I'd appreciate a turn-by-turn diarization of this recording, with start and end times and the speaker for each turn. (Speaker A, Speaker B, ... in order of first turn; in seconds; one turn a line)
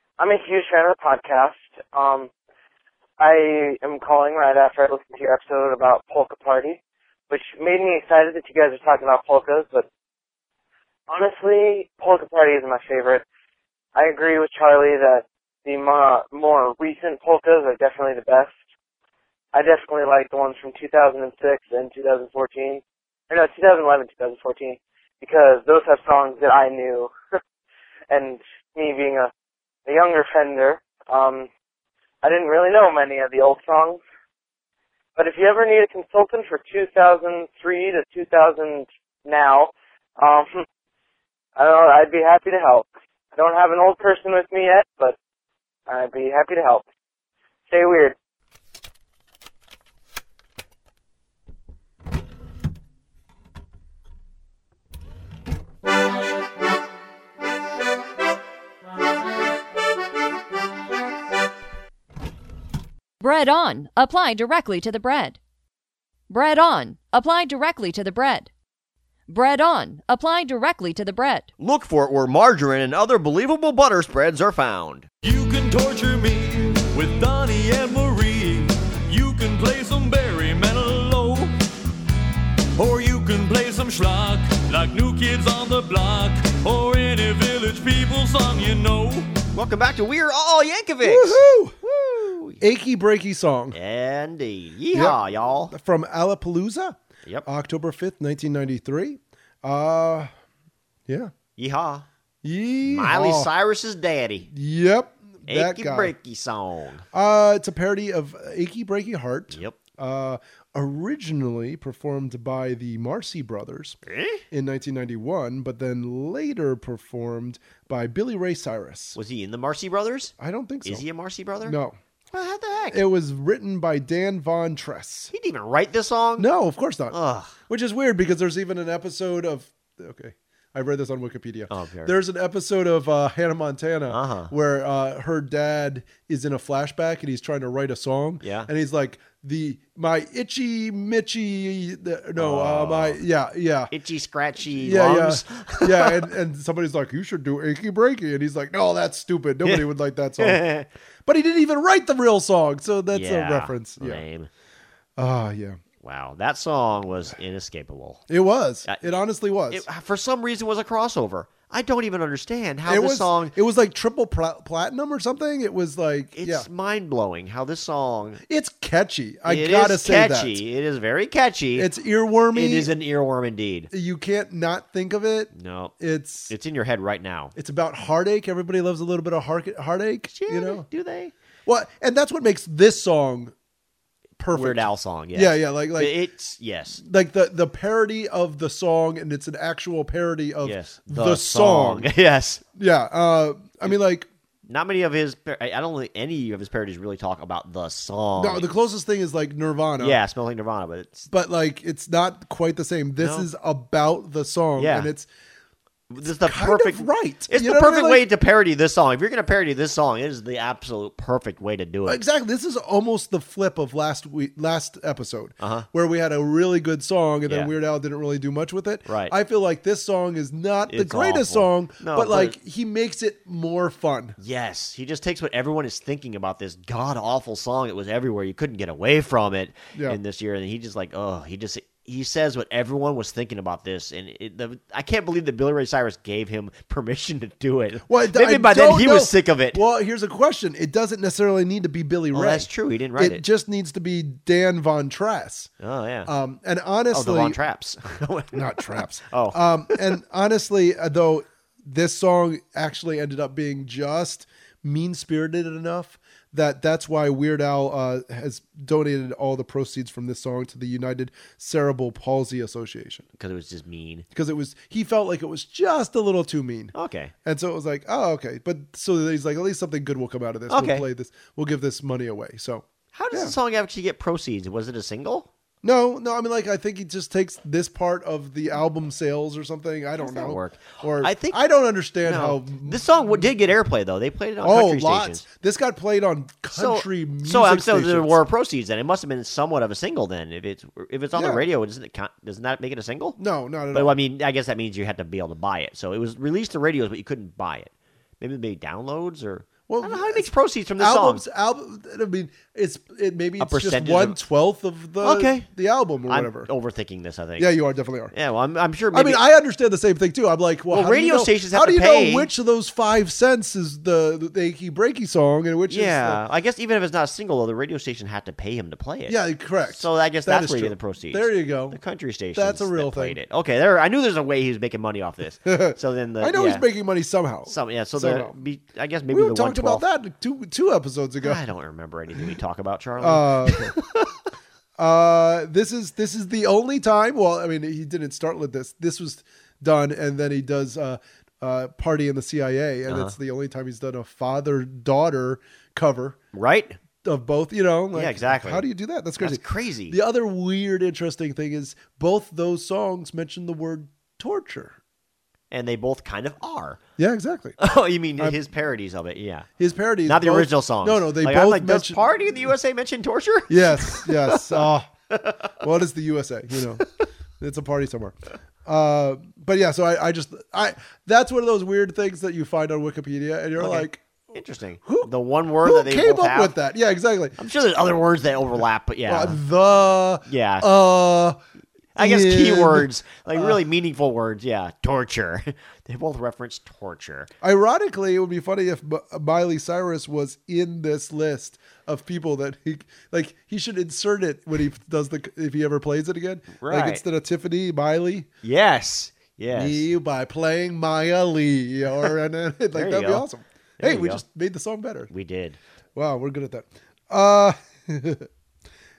Speaker A: 0.2-2.3
Speaker A: 3.2-9.9
Speaker A: 11.1-13.2
Speaker A: 13.9-18.5
Speaker A: 19.5-27.1
Speaker A: 28.1-29.3
Speaker A: 29.9-31.5
Speaker A: 32.2-34.0
Speaker A: 35.1-40.6
Speaker A: 41.5-45.2
Speaker A: 45.9-46.8
Speaker A: 47.7-48.1
Speaker B: 63.2-65.4
Speaker B: 66.3-68.5
Speaker B: 69.3-71.5
Speaker C: 71.6-75.1
Speaker D: 75.2-81.5
Speaker D: 82.7-89.4
Speaker C: 89.5-92.6
Speaker E: 91.0-91.8
Speaker E: 92.6-93.8
Speaker C: 93.7-95.7
Speaker E: 94.9-100.3
Speaker E: 101.1-101.3
Speaker C: 101.6-102.0
Speaker E: 102.4-103.5
Speaker C: 102.8-104.5
Speaker E: 104.5-106.1
Speaker C: 105.5-107.0
Speaker E: 107.1-114.0
Speaker C: 109.5-109.8
Speaker C: 114.1-114.4
Speaker E: 114.5-119.2
Speaker C: 119.1-121.8
Speaker E: 120.4-121.0
Speaker E: 121.6-122.0
Speaker C: 122.3-123.0
Speaker E: 122.9-125.3
Speaker C: 125.3-126.5
Speaker E: 126.4-127.2
Speaker C: 127.1-127.6
Speaker E: 127.7-143.9
Speaker C: 131.7-132.1
Speaker C: 134.1-134.5
Speaker C: 138.4-138.7
Speaker C: 142.3-143.2
Speaker C: 143.9-146.3
Speaker E: 144.7-150.6
Speaker C: 149.6-150.9
Speaker E: 151.2-154.2
Speaker C: 153.1-154.5
Speaker E: 155.2-155.8
Speaker C: 156.0-158.2
Speaker E: 158.3-159.8
Speaker C: 159.7-163.6
Speaker E: 162.8-166.7
Speaker C: 166.3-168.4
Speaker E: 168.5-170.6
Speaker C: 169.4-171.9
Speaker E: 171.7-172.9
Speaker C: 172.5-173.9
Speaker E: 173.9-176.5
Speaker C: 175.5-175.9
Speaker C: 176.5-177.5
Speaker E: 177.6-180.8
Speaker C: 180.3-181.3
Speaker E: 181.7-183.5
Speaker E: 184.4-186.2
Speaker C: 184.5-187.0
Speaker E: 187.0-192.1
Speaker C: 190.6-192.6
Speaker E: 192.8-194.2
Speaker C: 194.7-198.7
Speaker E: 198.3-200.2
Speaker C: 200.0-201.3
Speaker E: 201.3-205.3
Speaker C: 203.2-203.5
Speaker C: 204.8-205.1
Speaker C: 206.1-212.2
Speaker E: 206.2-208.2
Speaker E: 212.0-224.4
Speaker C: 215.6-215.8
Speaker C: 217.5-217.7
Speaker C: 219.1-219.3
Speaker C: 220.9-222.6
Speaker C: 224.4-239.8
Speaker E: 238.1-245.7
Speaker C: 242.3-243.4
Speaker C: 245.8-246.3
Speaker E: 246.2-247.6
Speaker C: 247.1-250.2
Speaker E: 248.5-263.2
Speaker C: 263.4-264.2
Speaker E: 264.3-266.9
Speaker C: 266.9-267.3
Speaker E: 267.4-273.6
Speaker C: 270.7-271.1
Speaker C: 273.1-275.5
Speaker E: 275.8-283.5
Speaker C: 280.2-281.6
Speaker C: 282.2-285.4
Speaker E: 284.6-288.4
Speaker C: 286.7-293.4
Speaker E: 291.3-291.6
Speaker E: 293.4-294.1
Speaker C: 293.9-301.4
Speaker E: 299.9-306.7
Speaker C: 303.6-304.4
Speaker C: 305.2-305.7
Speaker C: 306.2-307.8
Speaker E: 307.6-308.3
Speaker C: 308.3-309.4
Speaker E: 309.1-316.4
Speaker C: 310.9-312.5
Speaker C: 315.9-326.9
Speaker E: 319.3-322.0
Speaker E: 322.5-323.4
Speaker E: 325.6-328.6
Speaker C: 327.7-330.1
Speaker E: 329.3-331.6
Speaker C: 331.4-334.3
Speaker E: 333.2-333.9
Speaker E: 335.0-346.4
Speaker C: 343.1-343.4
Speaker C: 346.5-347.0
Speaker E: 347.2-354.9
Speaker C: 348.1-348.9
Speaker C: 349.4-350.2
Speaker C: 355.7-357.0
Speaker E: 357.2-357.8
Speaker C: 357.8-359.7
Speaker E: 359.8-362.2
Speaker C: 360.2-365.7
Speaker E: 363.7-365.1
Speaker E: 365.8-367.0
Speaker C: 367.0-367.2
Speaker E: 367.6-374.4
Speaker C: 373.8-376.8
Speaker E: 375.0-375.3
Speaker E: 375.8-377.6
Speaker C: 377.6-379.6
Speaker E: 379.3-381.6
Speaker C: 380.4-380.9
Speaker E: 382.1-383.8
Speaker C: 382.1-387.5
Speaker E: 387.6-398.5
Speaker C: 396.8-397.2
Speaker C: 398.6-400.1
Speaker E: 399.7-405.3
Speaker C: 402.9-403.5
Speaker C: 404.0-404.4
Speaker C: 405.3-405.8
Speaker E: 406.1-408.4